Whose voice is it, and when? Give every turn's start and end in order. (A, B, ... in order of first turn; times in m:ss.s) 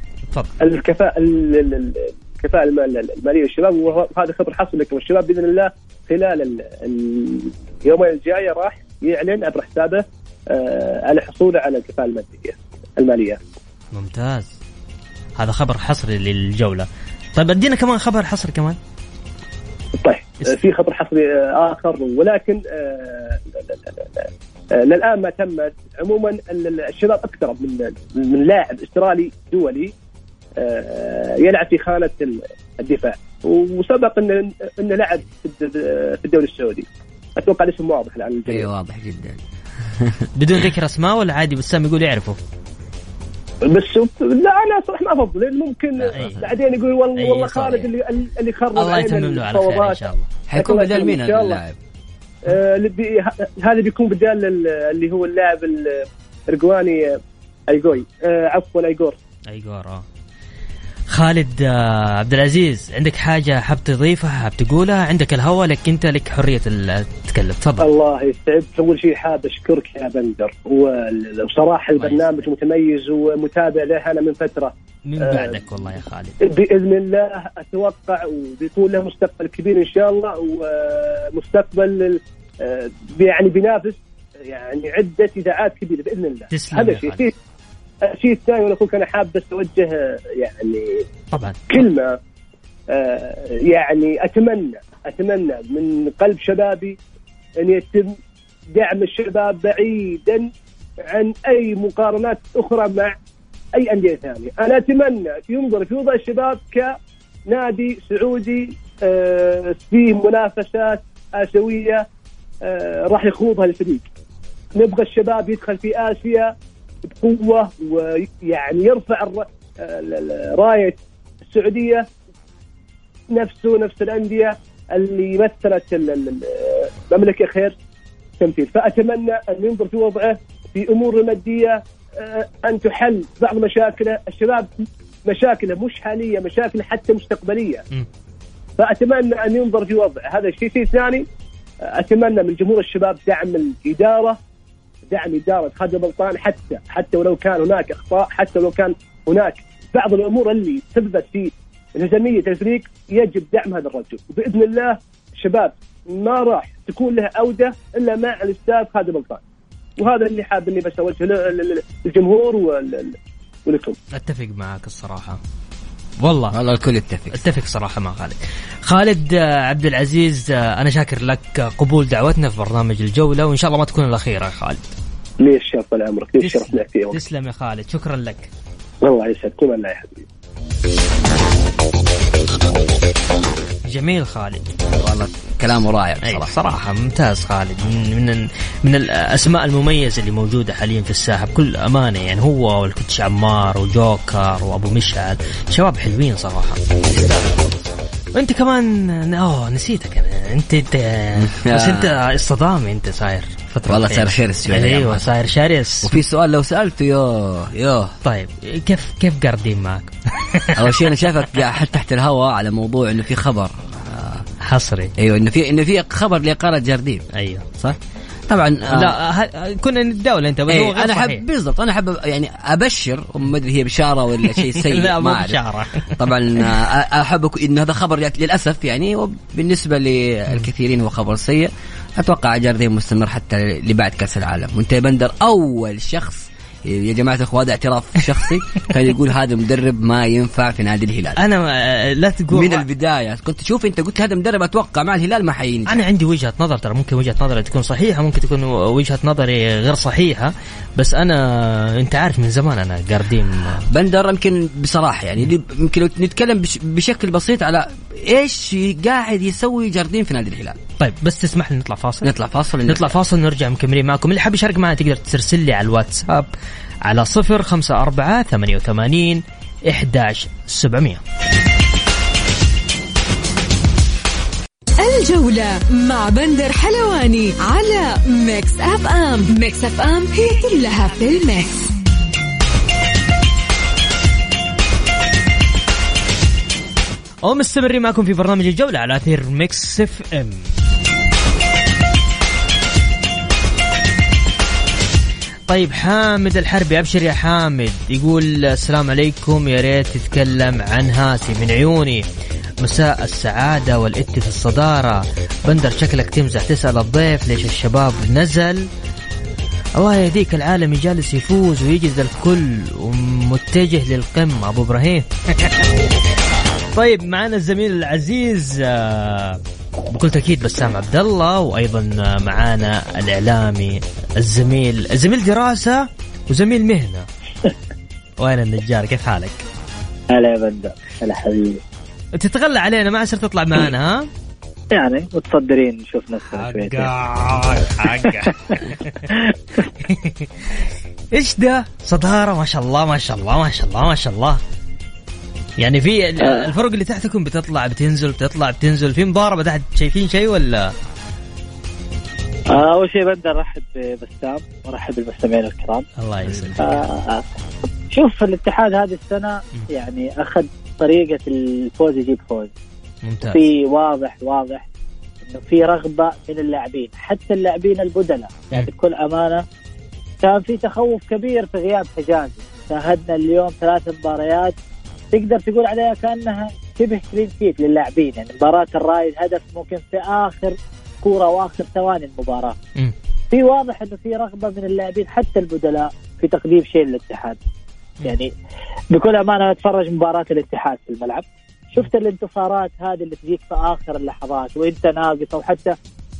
0:00.6-0:13.4 A
0:13.9-0:14.5 B
0:15.4-0:18.8 B
0:20.0-0:29.9 A
0:30.6-0:38.7 A
0:38.4-0:40.2 C
0:40.3-0:42.4 B
0:43.6-0:51.6 A
0:46.1-0:46.5 B
0:47.2-0:47.9 B
0:48.7-0:50.3 B
0:50.5-0:51.8 C
0:52.4-0:59.2 A
0:59.5-1:00.0 B
1:01.1-1:07.9 B
1:07.8-1:15.7 A
1:12.0-1:12.5 B
1:15.0-1:16.4 B
1:16.4-1:27.3 A
1:26.5-1:27.3 B
1:28.0-1:31.0 A
1:31.3-1:31.9 B
1:31.7-1:32.2 A
1:32.9-1:37.0 A
1:37.6-1:38.1 A
1:38.8-1:40.5 A
1:41.0-1:43.1 A
1:43.8-1:46.9 A
1:47.5-1:52.0 A
1:52.6-1:54.0 A
1:54.8-1:56.5 A
1:57.1-2:02.1 A
2:03.3-2:07.7 A
2:08.4-2:14.7 A
2:15.2-2:17.8 A
2:18.8-2:21.2 A
2:21.9-2:24.4 A
2:25.1-2:39.4 A
2:40.0-2:44.0 A
2:44.1-2:45.4 B
2:46.2-2:46.6 B
2:46.5-2:47.4 C
2:47.3-2:54.9 B
2:55.4-2:57.2 A
2:56.4-2:58.5 B
2:59.0-3:00.2 A
3:03.9-3:04.7 B
3:05.0-3:06.5 C
3:06.2-3:17.7 B
3:18.3-3:26.2 B
3:21.4-3:22.1 C
3:23.9-3:25.3 C
3:26.0-3:28.1 C
3:28.2-3:31.0 B
3:30.7-3:34.4 C
3:34.6-3:35.1 B
3:35.2-3:38.0 C
3:37.3-3:37.7 B
3:38.5-3:39.2 C
3:38.9-3:41.4 B
3:40.7-4:01.4 C
3:44.4-3:46.7 B
4:01.4-4:02.8 B
4:02.5-4:06.0 C
4:05.9-4:13.9 B
4:13.9-4:20.8 C
4:21.0-4:22.3 B
4:22.2-4:23.1 C
4:22.9-4:26.5 B
4:27.0-4:31.2 B
4:35.0-4:41.8 D
4:47.4-4:50.6 B
4:55.7-5:02.2 B
5:02.8-5:08.9 B
5:10.0-5:15.9 B
5:16.9-5:19.6 B
5:20.1-5:27.2 B
5:28.4-5:29.6 B
5:30.3-5:31.8 E
5:32.4-5:34.3 B
5:35.0-5:37.1 E
5:36.5-5:39.3 B
5:38.3-5:39.8 E
5:40.0-5:44.6 B
5:45.8-5:50.9 B
5:46.4-5:46.7 E
5:52.7-5:56.0 E
5:56.2-5:57.0 B
5:56.4-5:56.9 C
5:56.8-5:57.4 E
5:58.1-6:02.7 E
6:03.2-6:03.7 B
6:03.4-6:04.8 E
6:05.4-6:09.6 E
6:10.4-6:14.7 E
6:15.3-6:22.8 E
6:23.5-6:27.6 E
6:28.2-6:28.5 E
6:29.1-6:35.9 E